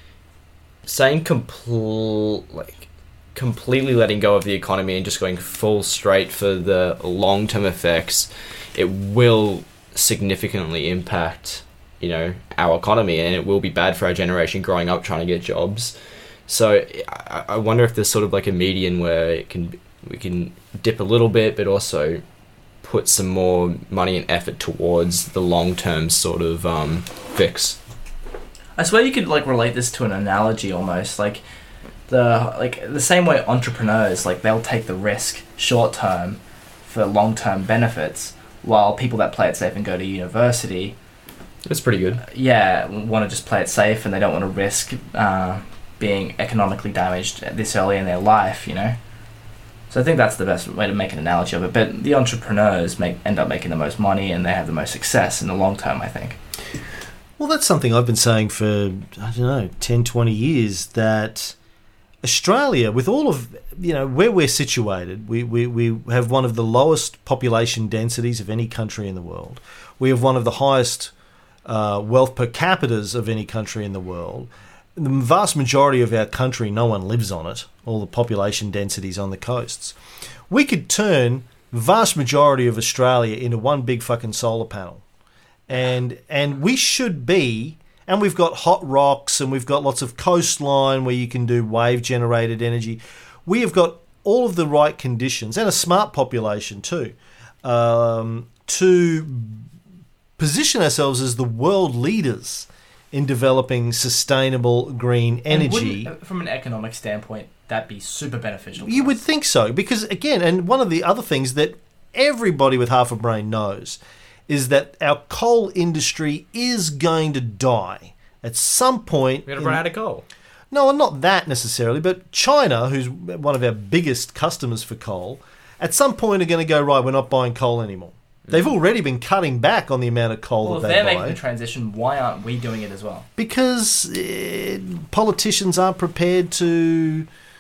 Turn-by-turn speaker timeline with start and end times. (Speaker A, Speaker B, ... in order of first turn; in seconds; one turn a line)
Speaker A: 0.9-15.9
Speaker A: 16.5-22.2
Speaker A: 22.8-27.8
Speaker B: 28.8-31.4
Speaker B: 32.1-41.0
Speaker A: 41.7-42.2
Speaker B: 42.2-49.0
Speaker B: 49.9-56.4
Speaker C: 57.4-61.6
Speaker C: 62.2-71.1
Speaker C: 71.7-80.0
Speaker C: 80.5-85.0
Speaker C: 85.7-99.7
Speaker C: 100.4-106.1
Speaker B: 105.5-109.2
Speaker C: 108.8-119.8
Speaker A: 119.5-120.2
Speaker C: 120.7-131.4
Speaker B: 130.6-133.3
Speaker C: 133.4-137.3